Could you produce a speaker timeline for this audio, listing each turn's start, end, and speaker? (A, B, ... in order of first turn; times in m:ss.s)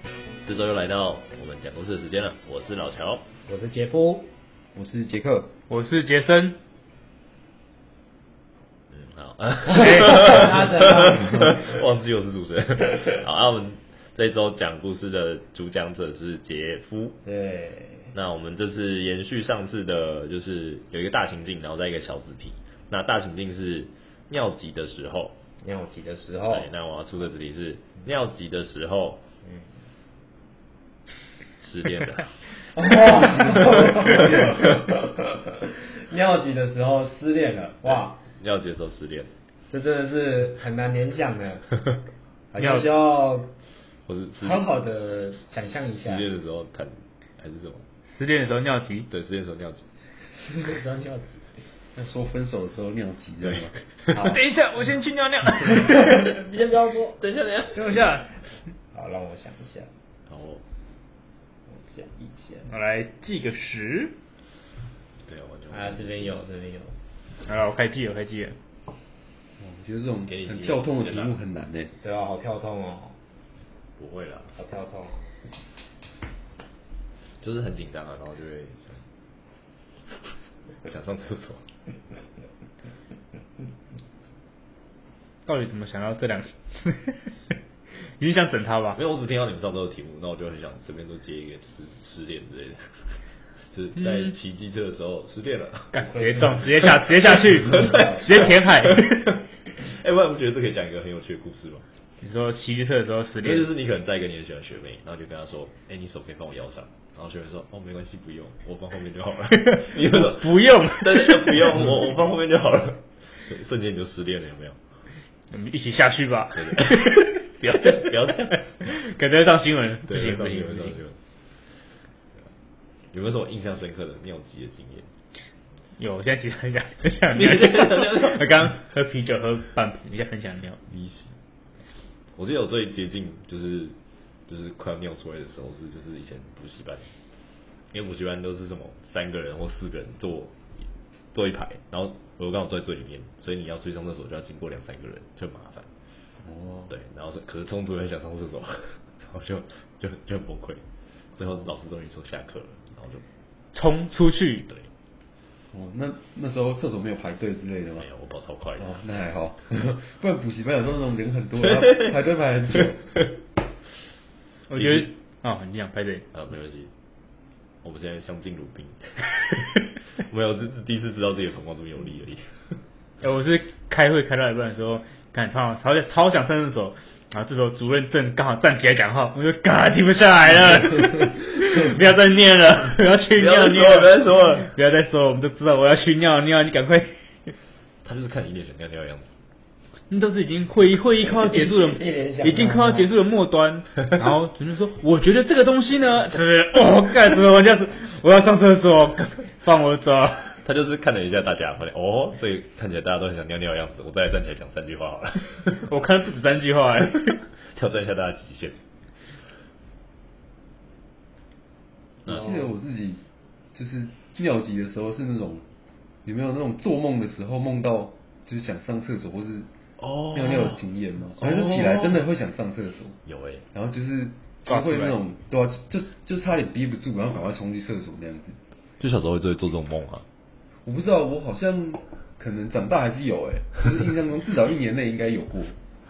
0:00.4-0:03.2 A
0:03.5-0:04.3 B
0:04.7-0:05.5 C
0:05.7-0:06.6 D
0:08.9-0:17.2 A
0:09.7-0:10.5 D
0:09.8-0:11.6 B
0:17.2-0:18.1 B
0:18.1-0:25.4 A
0:25.6-0:26.7 B
0:26.5-0:29.2 A
0:29.4-0:29.7 B
0:31.6-0:32.3 A
0:32.7-0:38.2 B
0:38.4-0:39.3 A
0:39.7-0:41.6 B
0:42.5-0:43.5 B
0:42.6-0:42.9 D
0:44.1-0:44.6 A
0:44.4-0:46.3 B
0:46.0-0:47.8 A
0:48.1-0:49.1 D
0:49.1-0:49.8 A
0:50.4-0:51.4 B
0:52.0-0:53.7 C
0:54.1-0:54.4 B
0:54.2-0:56.3 D
0:55.8-0:57.2 B
0:57.2-0:57.9 A
0:57.7-0:58.2 D
0:58.9-0:59.9 B
1:00.3-1:00.6 A
1:01.7-1:02.7 B
1:02.7-1:04.1 D
1:05.2-1:06.4 A
1:05.7-1:06.9 B
1:07.4-1:08.6 D
1:09.6-1:11.9 C
1:10.2-1:11.3 A
1:12.0-1:13.2 B
1:14.0-1:14.5 A
1:14.5-1:15.3 B
1:17.4-1:19.0 A
1:20.8-1:21.6 A
1:25.4-1:27.5 D
1:28.2-1:29.0 D
1:28.9-1:32.8 A
1:33.7-1:36.0 A
1:34.0-1:34.3 D
1:35.9-1:39.3 D
1:36.0-1:38.5 B
1:37.6-1:41.8 A
1:42.2-1:43.7 D
1:43.4-1:54.8 A
1:49.6-1:51.9 D
1:55.5-2:01.0 D
1:56.6-1:58.6 A
2:00.1-2:01.2 A
2:03.1-2:05.1 A
2:06.0-2:10.8 D
2:07.3-2:08.5 A
2:10.9-2:11.3 A
2:12.4-2:14.0 A
2:14.5-2:17.1 A
2:17.9-2:20.5 A
2:21.3-2:25.9 A
2:26.4-2:26.9 C
2:26.9-2:30.8 A
2:31.3-2:33.2 A
2:33.7-2:34.7 D
2:35.7-2:38.1 C
2:38.0-2:39.0 A
2:38.8-2:43.1 C
2:41.7-2:42.1 A
2:44.7-2:46.2 D
2:44.8-2:45.0 A
2:46.3-2:46.9 A
2:47.8-2:49.5 A
2:50.2-2:52.4 A
2:53.2-3:07.5 D
3:03.3-3:04.7 A
3:08.0-3:09.3 A
3:10.1-3:20.6 D
3:11.5-3:13.1 B
3:20.6-3:25.7 A
3:25.7-3:27.4 D
3:27.7-3:28.8 A
3:32.2-3:32.7 A
3:32.2-3:33.2 C
3:33.7-3:35.6 C
3:36.2-3:39.7 C
3:40.0-3:40.8 A
3:40.3-3:43.2 C
3:41.4-3:42.2 A
3:43.2-3:43.6 A
3:43.7-3:48.6 C
3:44.6-3:45.2 D
3:49.0-3:50.2 A
3:50.8-3:55.8 C